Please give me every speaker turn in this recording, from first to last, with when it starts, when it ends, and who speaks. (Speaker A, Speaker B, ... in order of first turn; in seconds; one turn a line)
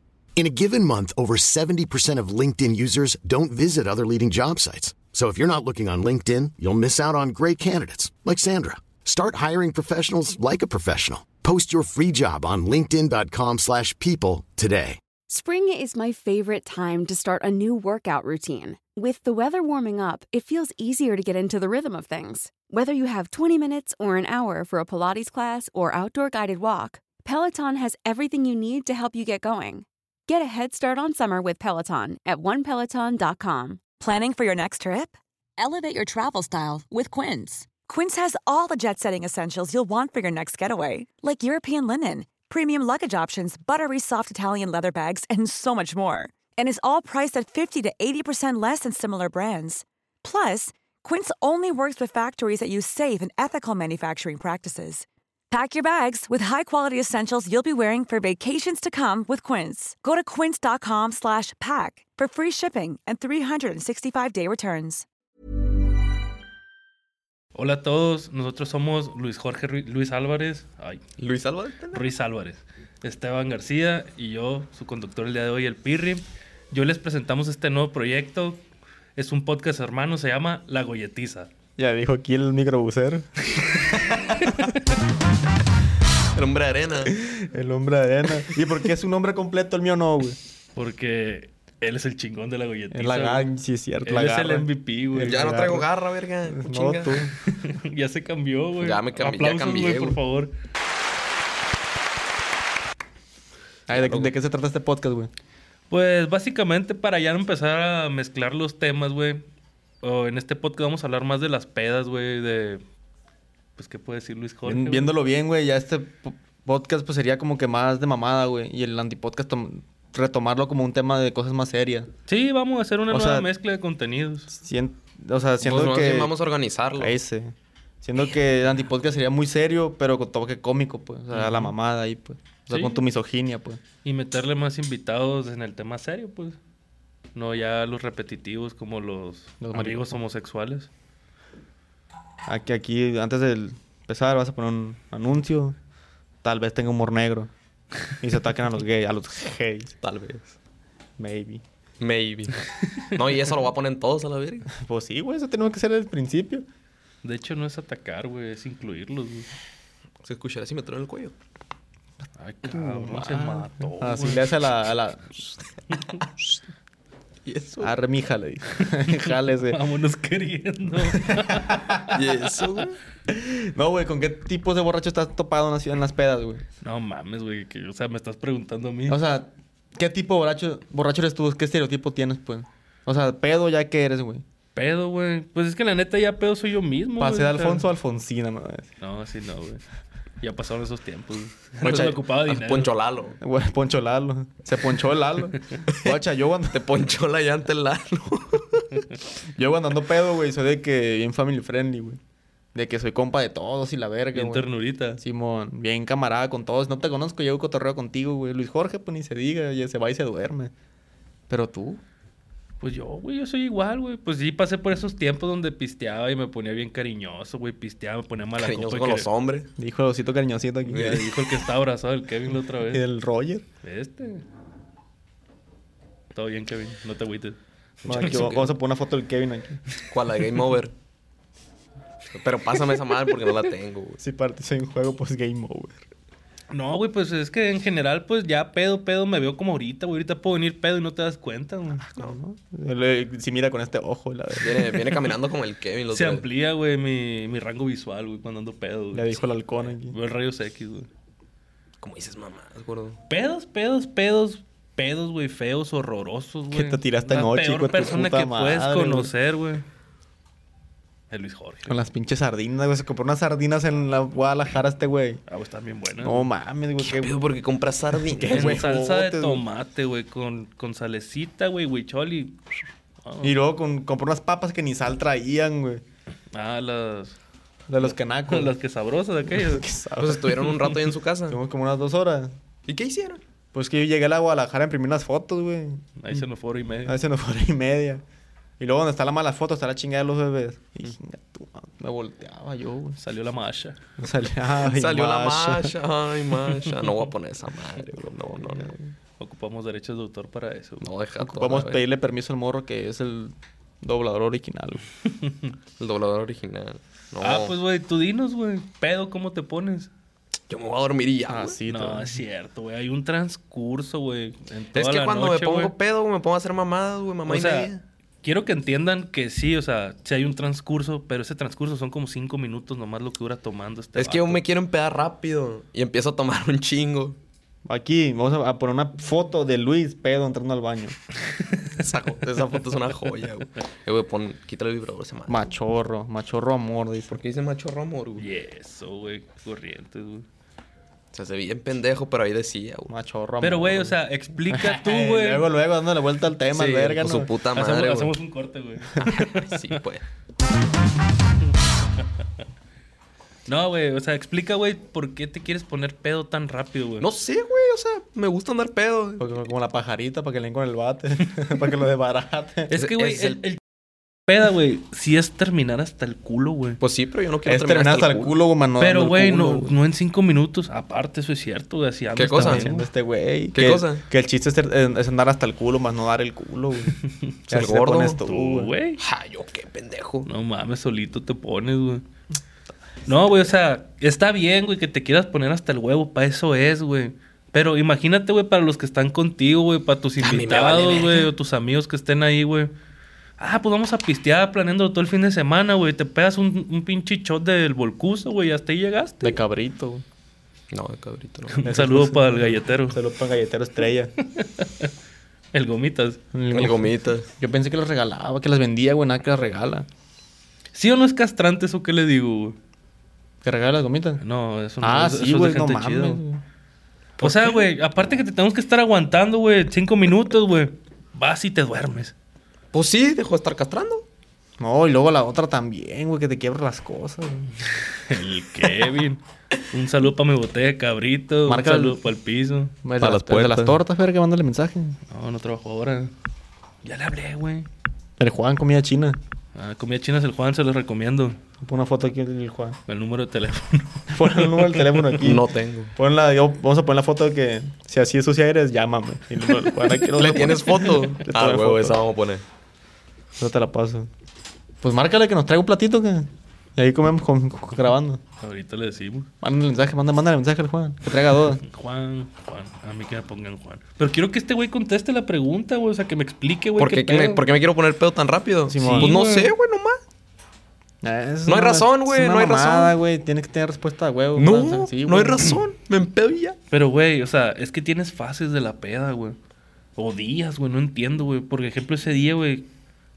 Speaker A: 0.3-15.0
Speaker B: 15.3-33.8
Speaker C: 34.0-65.0
Speaker D: 67.5-71.0
Speaker E: 71.2-72.0
Speaker D: 71.9-78.6
Speaker D: 79.2-81.5
Speaker F: 81.8-83.3
Speaker E: 83.9-84.5
Speaker E: 86.3-87.1
Speaker F: 87.1-90.4
Speaker D: 90.8-93.5
Speaker F: 92.9-95.9
Speaker D: 94.0-95.3
Speaker E: 95.2-97.2
Speaker F: 96.5-97.3
Speaker D: 97.5-100.5
Speaker E: 98.8-100.2
Speaker E: 103.9-104.3
Speaker F: 103.9-105.3
Speaker D: 105.9-109.4
Speaker D: 110.0-112.8
Speaker D: 113.8-115.1
Speaker F: 114.6-122.1
Speaker D: 122.3-124.5
Speaker F: 123.1-123.5
Speaker F: 124.5-126.3
Speaker E: 125.6-127.1
Speaker F: 127.0-133.8
Speaker D: 131.3-131.7
Speaker D: 132.7-133.0
Speaker D: 134.0-136.6
Speaker D: 137.3-140.9
Speaker F: 139.6-140.2
Speaker F: 142.5-145.8
Speaker F: 146.4-147.5
Speaker F: 148.2-149.9
Speaker E: 150.0-150.5
Speaker F: 151.2-151.6
Speaker E: 152.0-154.7
Speaker F: 154.7-156.6
Speaker D: 157.2-159.5
Speaker E: 160.2-161.3
Speaker D: 162.4-164.6
Speaker F: 162.7-165.4
Speaker E: 167.4-167.9
Speaker F: 167.8-169.8
Speaker D: 169.7-171.8
Speaker F: 171.3-172.2
Speaker E: 172.1-172.9
Speaker F: 173.3-176.6
Speaker D: 176.8-179.2
Speaker F: 179.1-184.4
Speaker D: 184.7-187.9
Speaker F: 187.2-188.9
Speaker D: 189.0-189.8
Speaker D: 190.4-192.9
Speaker F: 191.8-192.2
Speaker E: 191.8-193.4
Speaker F: 193.4-196.8
Speaker E: 195.9-196.2
Speaker E: 196.7-199.0
Speaker F: 199.6-202.2
Speaker F: 202.7-204.7
Speaker D: 204.3-205.2
Speaker F: 205.2-210.7
Speaker F: 211.5-212.0
Speaker D: 212.8-219.3
Speaker E: 218.6-219.7
Speaker F: 219.8-221.2
Speaker D: 220.9-223.0
Speaker F: 222.9-223.6
Speaker D: 223.8-224.4
Speaker D: 226.3-227.6
Speaker E: 228.0-228.6
Speaker F: 228.0-229.8
Speaker D: 228.1-228.6
Speaker E: 230.1-230.9
Speaker E: 232.3-234.2
Speaker F: 234.2-236.0
Speaker D: 236.7-242.0
Speaker F: 241.9-245.2
Speaker E: 244.6-246.4
Speaker D: 246.1-249.4
Speaker F: 249.1-250.1
Speaker D: 250.1-251.1
Speaker E: 252.0-253.2
Speaker D: 253.3-259.8
Speaker F: 256.7-259.3
Speaker D: 261.3-262.0
Speaker F: 261.9-265.4
Speaker D: 265.5-266.4
Speaker F: 266.2-267.4
Speaker E: 267.0-268.8
Speaker F: 268.4-269.6
Speaker D: 268.5-272.6
Speaker D: 273.2-273.5
Speaker F: 273.4-276.0
Speaker D: 276.5-277.4
Speaker F: 277.9-278.7
Speaker D: 278.0-279.8
Speaker F: 279.5-280.7
Speaker E: 280.2-281.6
Speaker F: 281.5-282.5
Speaker E: 282.9-283.4
Speaker F: 283.7-286.0
Speaker D: 286.2-287.2
Speaker F: 287.1-288.2
Speaker F: 288.8-293.2
Speaker D: 293.2-294.0
Speaker F: 294.2-295.9
Speaker E: 294.9-298.9
Speaker F: 298.5-299.1
Speaker D: 299.4-301.1
Speaker E: 301.0-302.0
Speaker F: 301.4-305.0
Speaker D: 305.4-305.7
Speaker E: 306.0-307.7
Speaker D: 307.4-310.1
Speaker E: 310.7-311.8
Speaker F: 311.5-312.4
Speaker D: 311.9-315.9
Speaker E: 314.9-318.0
Speaker D: 317.5-317.9
Speaker D: 318.4-324.6
Speaker E: 324.1-327.4
Speaker F: 327.8-331.2
Speaker E: 332.0-335.6
Speaker F: 335.5-337.4
Speaker E: 337.3-338.4
Speaker D: 338.4-340.4
Speaker E: 341.3-343.1
Speaker F: 343.1-344.1
Speaker D: 343.6-345.7
Speaker F: 344.7-347.5
Speaker E: 346.7-348.3
Speaker D: 347.7-349.7
Speaker E: 349.5-350.2
Speaker D: 353.7-357.2
Speaker E: 357.2-359.5
Speaker F: 359.4-362.9
Speaker D: 362.9-363.8
Speaker E: 362.9-363.6
Speaker D: 364.5-367.0
Speaker E: 367.0-368.5
Speaker F: 367.6-369.9
Speaker D: 369.0-373.0
Speaker E: 372.4-372.9
Speaker F: 372.5-377.1
Speaker E: 373.7-374.2
Speaker F: 377.7-378.9
Speaker E: 377.7-378.4
Speaker D: 378.4-379.2
Speaker E: 379.2-380.5
Speaker D: 380.4-382.2
Speaker D: 383.3-392.9
Speaker E: 390.4-391.5
Speaker D: 393.6-399.6
Speaker F: 399.4-400.2
Speaker E: 400.9-401.9
Speaker D: 401.7-403.2
Speaker F: 401.9-404.3
Speaker D: 404.4-405.1
Speaker D: 405.7-406.4
Speaker F: 406.5-410.1
Speaker E: 406.7-407.5
Speaker D: 410.9-412.8
Speaker F: 413.6-414.4
Speaker D: 414.4-416.4
Speaker F: 415.0-416.6
Speaker D: 417.4-422.3
Speaker E: 417.4-417.8
Speaker E: 422.9-424.2
Speaker F: 424.8-427.7
Speaker D: 428.2-432.9
Speaker F: 431.6-432.2
Speaker F: 433.0-435.2
Speaker E: 433.2-434.0
Speaker D: 435.3-436.3
Speaker D: 437.0-437.9
Speaker F: 438.4-439.4
Speaker D: 439.7-441.6
Speaker F: 441.8-443.0
Speaker D: 443.1-445.3
Speaker F: 444.3-445.6
Speaker E: 445.4-446.1
Speaker F: 446.1-452.2
Speaker E: 450.4-452.6
Speaker F: 453.6-454.3
Speaker F: 455.0-458.4
Speaker D: 458.6-459.5
Speaker F: 459.6-461.8
Speaker D: 461.8-467.6
Speaker E: 467.0-470.2
Speaker F: 468.9-469.3
Speaker D: 469.0-469.7
Speaker F: 471.2-475.8
Speaker E: 471.7-473.1
Speaker E: 474.6-476.8
Speaker D: 476.9-479.6
Speaker D: 480.2-482.9